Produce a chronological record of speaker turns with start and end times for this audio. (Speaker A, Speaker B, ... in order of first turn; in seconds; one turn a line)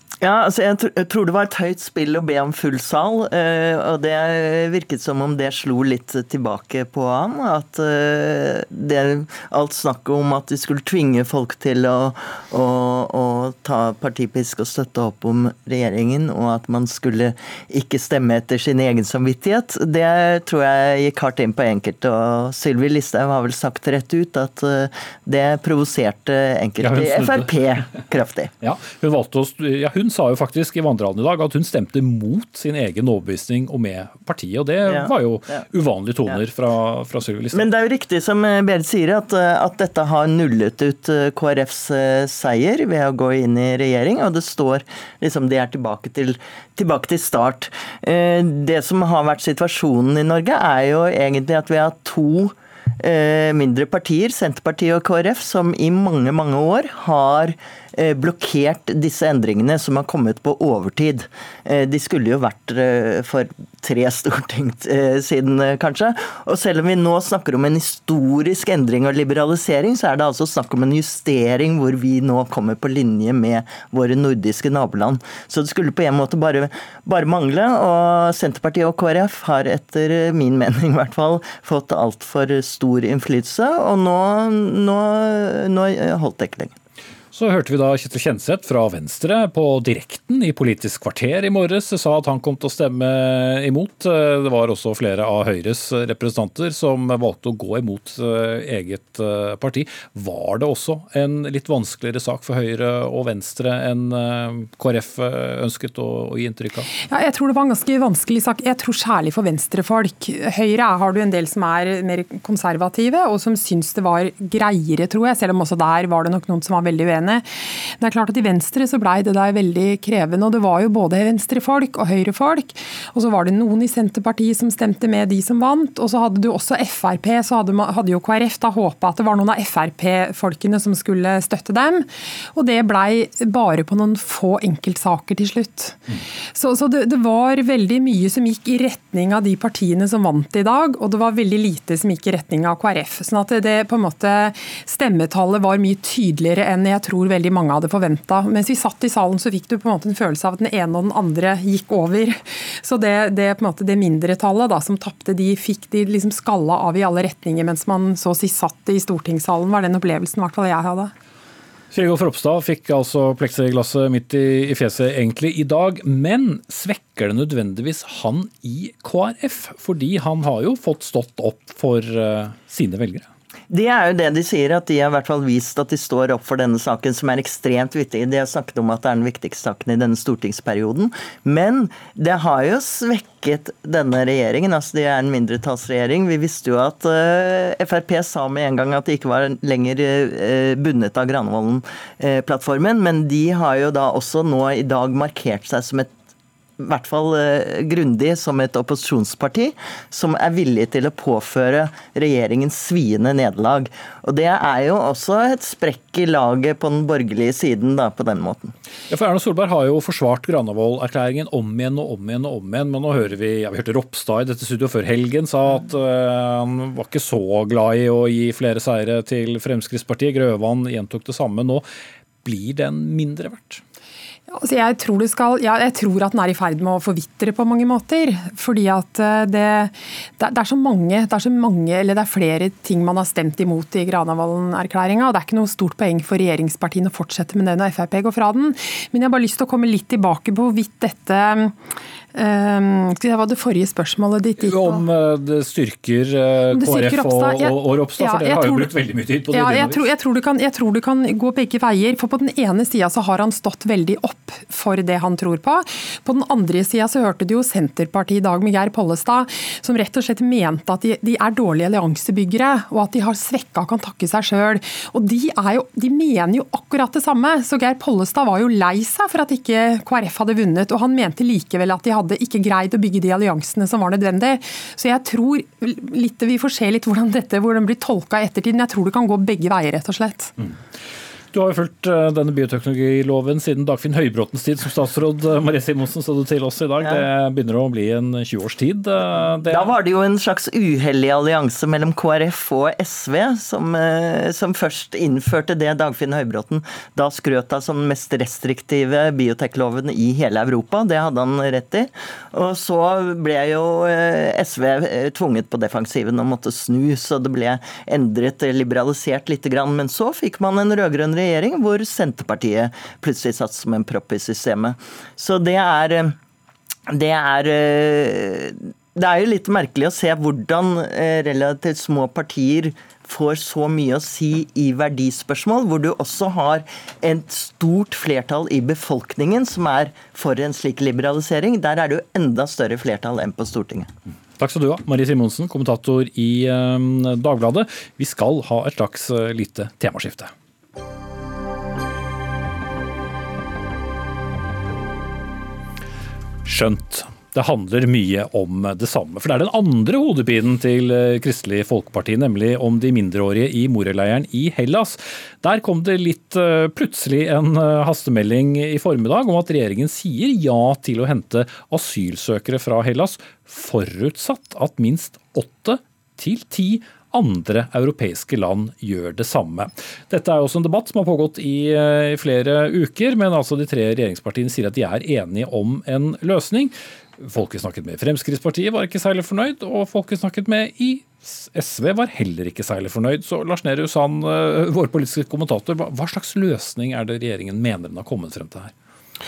Speaker A: 0.2-28.5
Speaker B: 26.8-27.5
Speaker B: 28.6-37.6
Speaker A: 34.9-35.6
Speaker A: 37.5-86.7
Speaker B: 87.3-106.9
Speaker C: 107.1-161.1
Speaker B: 161.9-173.3
Speaker A: 173.7-196.1
Speaker A: 196.8-208.7
Speaker B: 209.1-221.8
Speaker B: 222.4-223.8
Speaker C: 224.5-241.8
Speaker C: 242.3-245.0
Speaker B: 244.6-250.1
Speaker C: 246.7-248.9
Speaker C: 249.5-280.5
Speaker B: 281.5-289.9
Speaker A: 289.7-316.4
Speaker A: 317.1-334.1
Speaker B: 334.6-340.5
Speaker B: 346.6-388.9